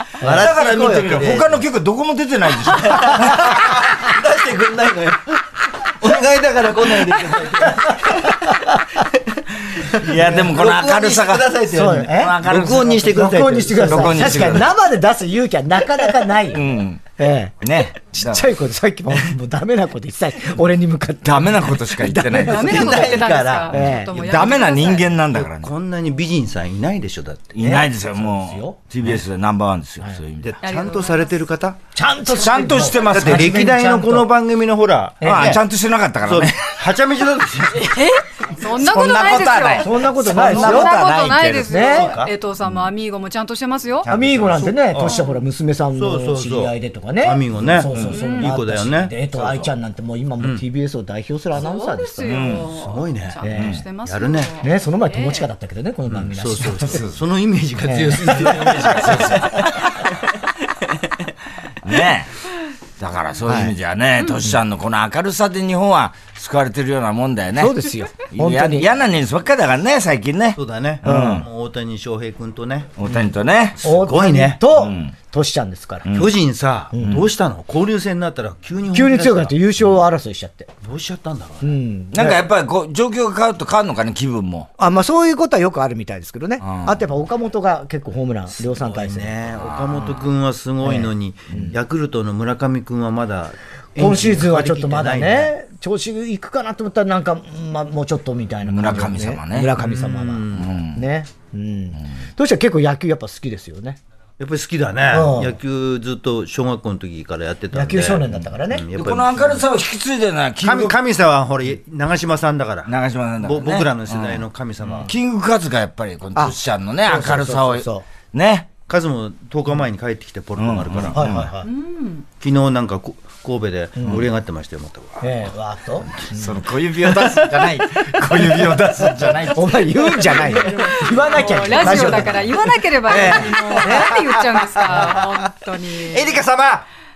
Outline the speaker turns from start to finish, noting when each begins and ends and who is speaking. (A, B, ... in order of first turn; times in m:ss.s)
0:00.2-0:01.2 A
0:00.2-0:01.7 B
0:00.2-0:03.6 C
0:02.7-0:14.6 B
0:07.6-0:08.5 A
0:10.0-0:11.6 C
0:11.7-0:24.2 A
0:12.1-0:13.2 C
0:13.9-0:14.7 C
0:16.5-0:17.1 C
0:17.6-0:18.5 C
0:21.2-0:22.9 C
0:22.3-0:23.9 B
0:22.4-0:25.2 D
0:24.1-0:25.7 C
0:25.1-0:27.6 B
0:27.6-0:30.5 C
0:27.6-0:29.1 A
0:30.4-0:31.8 B
0:30.6-0:31.4 D
0:31.9-0:34.3 A
0:32.3-0:33.7 C
0:33.0-0:35.6 B
0:35.2-0:35.6 A
0:35.2-0:36.8 C
0:36.2-0:38.1 B
0:37.8-0:44.1 D
0:38.7-0:41.7 C
0:39.8-0:40.9 A
0:41.6-0:42.1 A
0:41.6-0:42.3 B
0:44.0-0:44.7 C
0:44.1-0:52.4 A
0:44.3-0:45.3 B
0:45.0-0:45.4 D
0:45.9-0:49.2 B
0:47.8-0:48.2 C
0:48.1-0:48.5 D
0:49.4-0:49.7 C
0:51.5-0:55.5 D
0:52.3-0:52.8 C
0:52.7-0:53.5 B
0:53.4-0:53.8 A
0:53.5-0:53.8 C
0:54.0-0:54.6 B
0:54.6-0:57.0 A
0:56.1-1:00.3 B
0:56.8-0:57.2 C
0:57.8-0:59.4 A
0:58.6-0:59.7 C
1:00.9-1:01.2 B
1:01.8-1:02.3 C
1:03.0-1:11.5 C
1:03.5-1:03.7 A
1:07.6-1:08.9 A
1:10.6-1:13.0 B
1:11.0-1:11.4 A
1:13.0-1:13.8 C
1:13.8-1:16.2 A
1:13.9-1:14.7 B
1:14.7-1:15.1 C
1:16.1-1:16.3 C
1:16.1-1:19.6 B
1:16.9-1:17.3 A
1:18.9-1:20.7 A
1:20.8-1:21.7 B
1:21.6-1:22.4 A
1:22.1-1:24.7 C
1:24.8-1:29.4 A
1:26.6-1:27.0 C
1:28.6-1:35.5 B
1:29.7-1:30.1 C
1:30.8-1:31.8 A
1:34.0-1:44.0 A
1:38.7-1:39.7 C
1:39.8-1:40.7 B
1:40.5-1:41.0 C
1:44.4-1:49.7 B
1:45.1-1:45.6 A
1:47.7-1:48.9 A
1:48.9-1:51.0 C
1:50.6-1:55.1 B
1:52.9-1:54.4 C
1:54.8-1:55.1 A
1:55.1-1:58.7 C
1:56.4-1:58.1 A
1:58.8-2:01.7 B
2:00.6-2:01.5 C
2:01.1-2:01.5 A
2:01.6-2:02.3 D
2:02.4-2:05.4 B
2:04.0-2:04.3 A
2:05.2-2:06.7 A
2:06.3-2:09.8 C
2:07.0-2:08.0 B
2:08.4-2:08.7 A
2:09.5-2:14.2 A
2:10.1-2:12.2 B
2:10.8-2:16.4 D
2:13.1-2:15.3 B
2:16.0-2:16.9 B